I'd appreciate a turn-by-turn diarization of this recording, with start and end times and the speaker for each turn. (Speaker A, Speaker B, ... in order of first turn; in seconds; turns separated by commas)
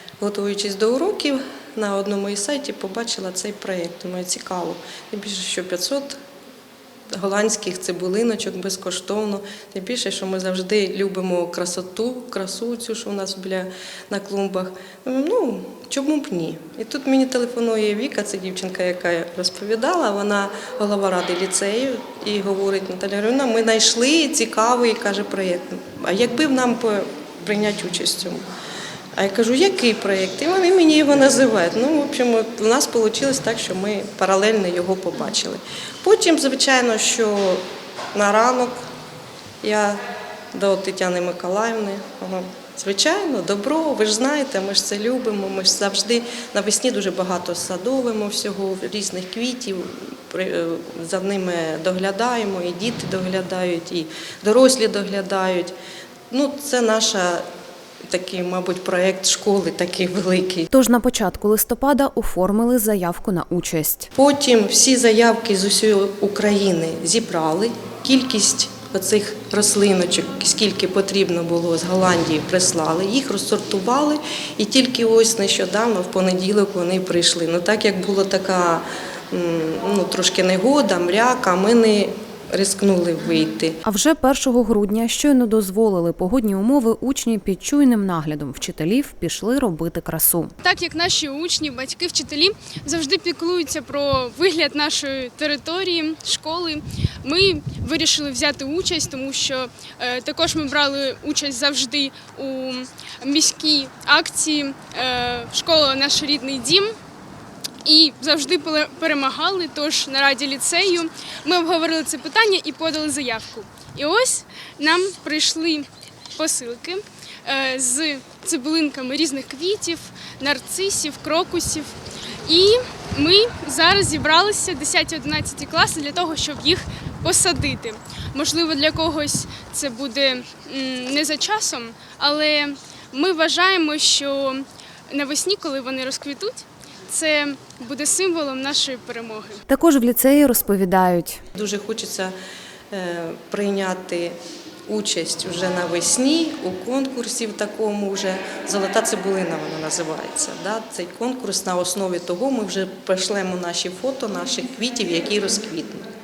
Speaker A: 0.2-6.2, Speaker A: 7.1-28.5, Speaker A: 29.1-37.6, Speaker A: 38.1-38.8, Speaker A: 39.6-55.7, Speaker A: 56.3-57.4, Speaker A: 58.1-60.7, Speaker B: 60.7-64.1, Speaker A: 64.1-83.8, Speaker B: 83.8-90.5, Speaker C: 90.6-106.9, Speaker C: 107.8-139.6, Speaker B: 139.7-141.4, Speaker A: 141.5-142.3, Speaker A: 142.9-156.1